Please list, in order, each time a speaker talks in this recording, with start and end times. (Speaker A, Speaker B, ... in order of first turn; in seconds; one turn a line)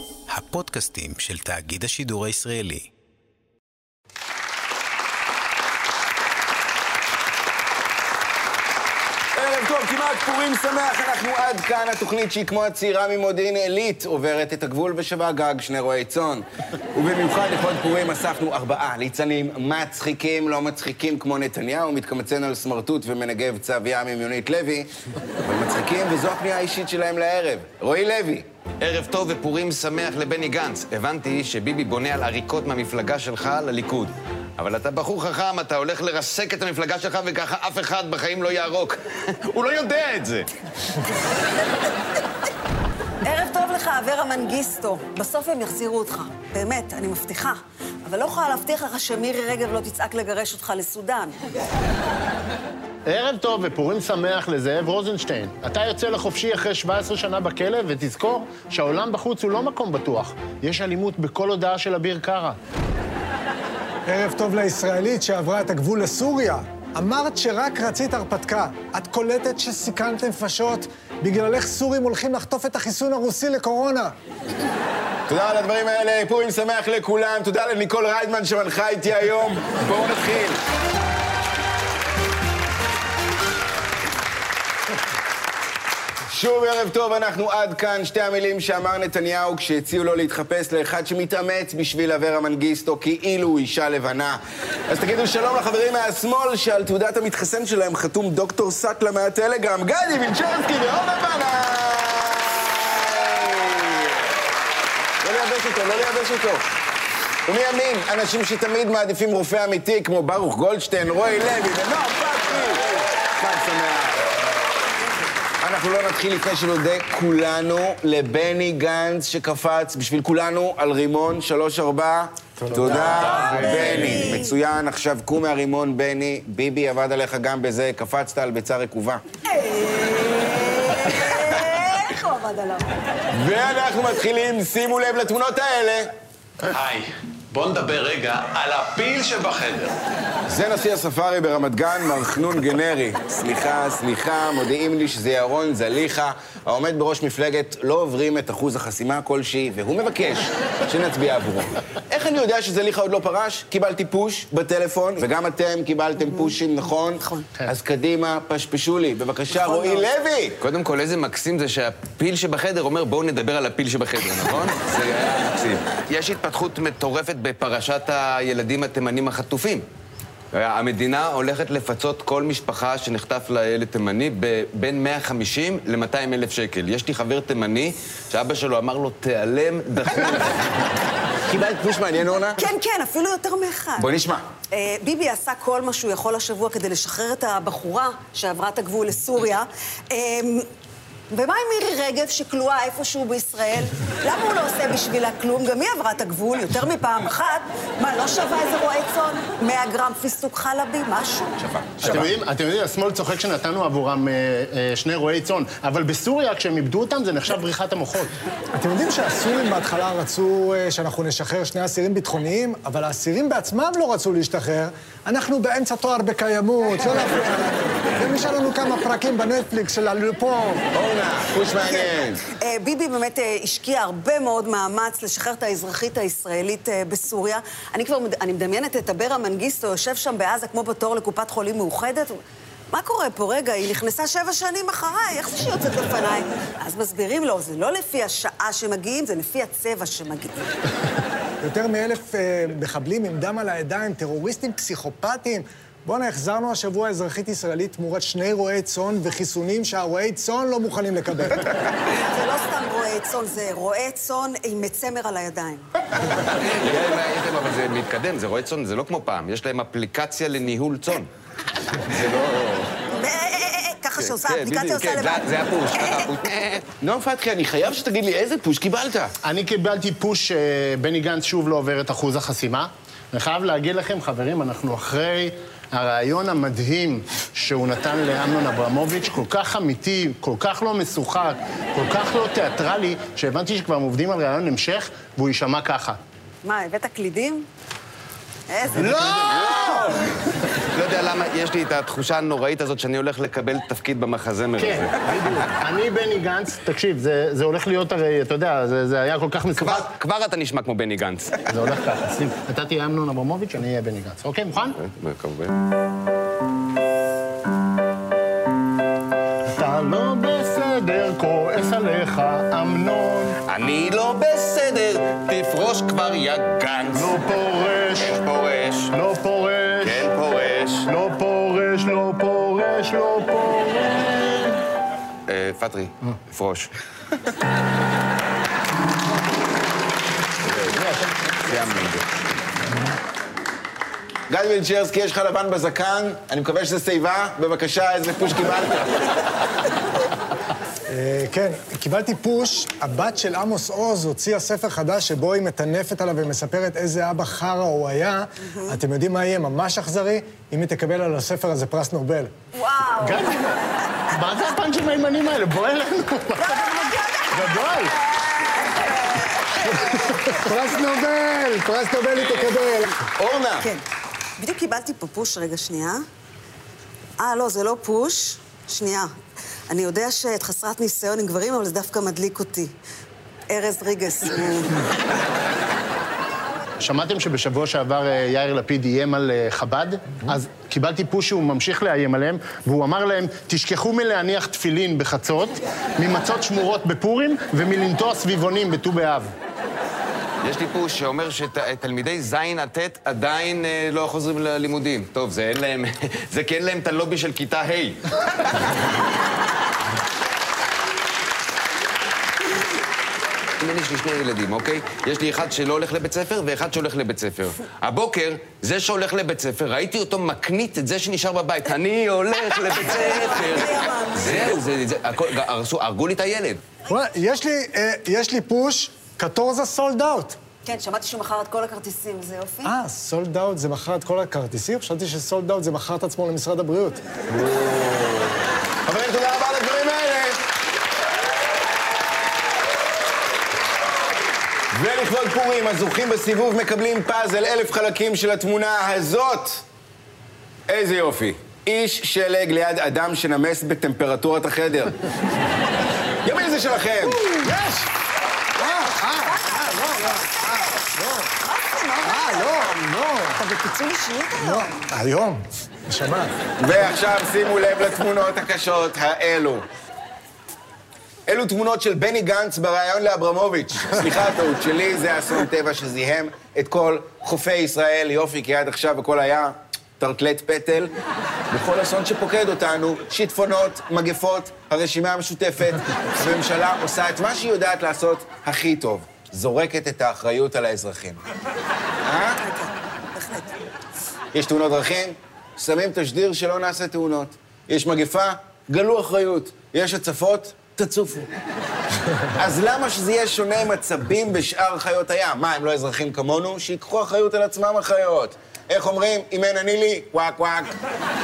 Speaker A: 0.3-2.9
Speaker B: 9.3-24.9
Speaker B: 25.4-28.5
Speaker C: 28.8-40.5
Speaker D: 43.2-51.4
Speaker E: 53.1-62.6
Speaker F: 64.1-74.1
Speaker B: 75.3-80.6
Speaker B: 86.3-104.4
Speaker B: 105.2-106.7
Speaker B: 107.5-114.4
Speaker B: 115.6-129.2
Speaker F: 122.6-123.1
Speaker E: 122.7-123.9
Speaker D: 123.6-124.6
Speaker D: 129.5-132.9
Speaker B: 133.3-136.1
Speaker G: 136.7-140.0
Speaker B: 140.5-160.6
Speaker D: 157.2-157.5
Speaker D: 159.6-160.1
Speaker C: 160.6-169.8
Speaker C: 170.5-180.8
Speaker B: 181.4-182.6
Speaker D: 182.6-184.1
Speaker B: 184.0-184.4
Speaker D: 184.7-190.7
Speaker D: 191.3-201.6
Speaker B: 201.6-202.3
Speaker E: 202.0-208.4
Speaker F: 208.8-220.8
Speaker B: 220.9-222.4
Speaker D: 222.6-232.4
Speaker D: 232.9-240.7
Speaker F: 241.6-251.7
Speaker D: 252.2-255.9
Speaker C: 256.3-261.3
Speaker C: 261.9-262.9
Speaker D: 263.1-265.5
Speaker C: 264.2-266.9
Speaker D: 266.0-266.3
Speaker B: 267.0-269.3
Speaker E: 269.4-286.2
Speaker D: 286.6-287.7
Speaker D: 288.7-289.9
Speaker E: 288.9-290.1
Speaker C: 289.2-290.2
Speaker C: 290.8-295.2
Speaker E: 294.8-300.1
Speaker C: 299.8-301.6
Speaker E: 301.7-305.0
Speaker C: 305.0-305.8
Speaker E: 309.7-313.6
Speaker C: 313.7-317.4
Speaker E: 317.1-318.4
Speaker C: 318.2-319.1
Speaker E: 319.1-320.3
Speaker C: 320.0-321.1
Speaker E: 321.1-324.8
Speaker C: 325.5-326.9
Speaker C: 330.7-331.0
Speaker E: 330.9-331.2
Speaker C: 331.6-332.2
Speaker B: 334.5-339.1
Speaker F: 341.1-352.5
Speaker D: 348.6-349.0
Speaker D: 352.7-353.6
Speaker E: 353.2-353.8
Speaker E: 354.3-357.0
Speaker D: 356.6-360.2
Speaker E: 357.5-358.1
Speaker E: 360.1-362.4
Speaker F: 360.1-363.1
Speaker B: 363.3-363.9
Speaker D: 364.6-366.2
Speaker D: 367.4-369.3
Speaker D: 369.9-372.9
Speaker D: 373.7-375.0
Speaker E: 377.0-389.5
Speaker C: 390.6-398.9
Speaker C: 403.8-416.8
Speaker D: 412.9-414.8
Speaker F: 417.1-420.6
Speaker D: 420.9-422.9
Speaker F: 422.8-427.2
Speaker B: 427.5-430.6
Speaker B: 434.9-439.8
Speaker B: 440.9-445.2
Speaker B: 446.4-447.4
Speaker F: 447.3-448.1
Speaker D: 448.8-451.0
Speaker F: 448.8-451.5
Speaker D: 451.6-453.0
Speaker F: 452.2-453.6
Speaker D: 453.6-455.0
Speaker F: 454.6-456.5
Speaker B: 456.8-459.9
Speaker B: 461.5-471.1
Speaker B: 471.7-481.4
Speaker B: 482.2-482.6
Speaker D: 482.6-483.8
Speaker B: 484.5-491.5
Speaker B: 492.6-500.9